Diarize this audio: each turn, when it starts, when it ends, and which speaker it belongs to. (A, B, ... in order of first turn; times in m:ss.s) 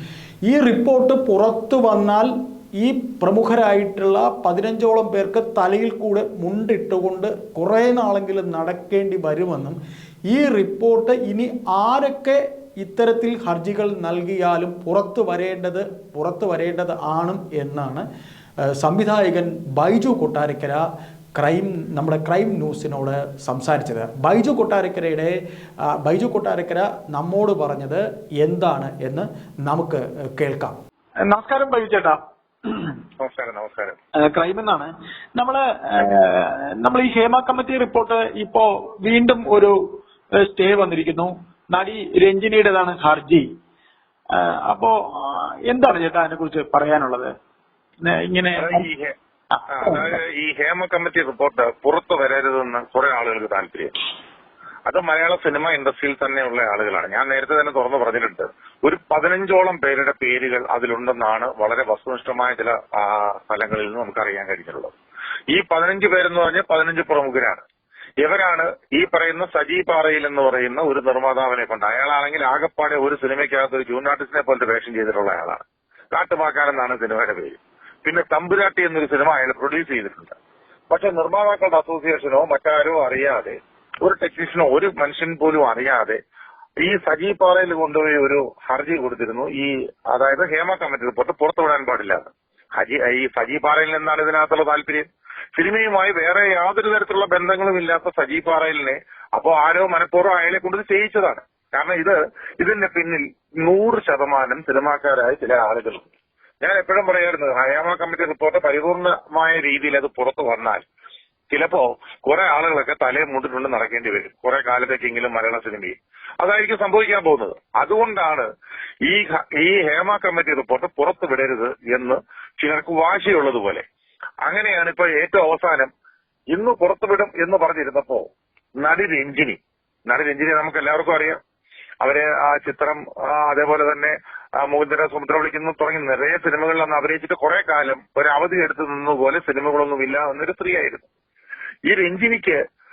0:00.5-0:09.8 A
0:10.3-0:18.0 A
0:18.8-0:20.8 A
0:21.4-0:25.3 A
0:26.0-0:30.7 A
0:31.2-0:32.9 B
0:33.2-0:34.0 C
0:34.2-0:43.5 B
0:44.3-0:47.3 B
0:48.0-0:48.9 B
0:48.6-0:49.1 C
0:49.6-0:50.1 B
0:49.7-0:53.9 C
0:54.9-1:04.9 C
1:05.5-1:07.6 C
1:08.2-1:20.4 C
1:20.9-1:26.2 C
1:26.8-1:32.2 C
1:32.8-1:46.1 C
1:46.6-1:50.8 C
1:51.5-1:58.5 C
1:59.0-2:03.8 C
2:04.4-2:05.9 C
2:06.5-2:08.3 C
2:08.8-2:11.4 C
2:12.0-2:21.1 C
2:21.9-2:22.6 C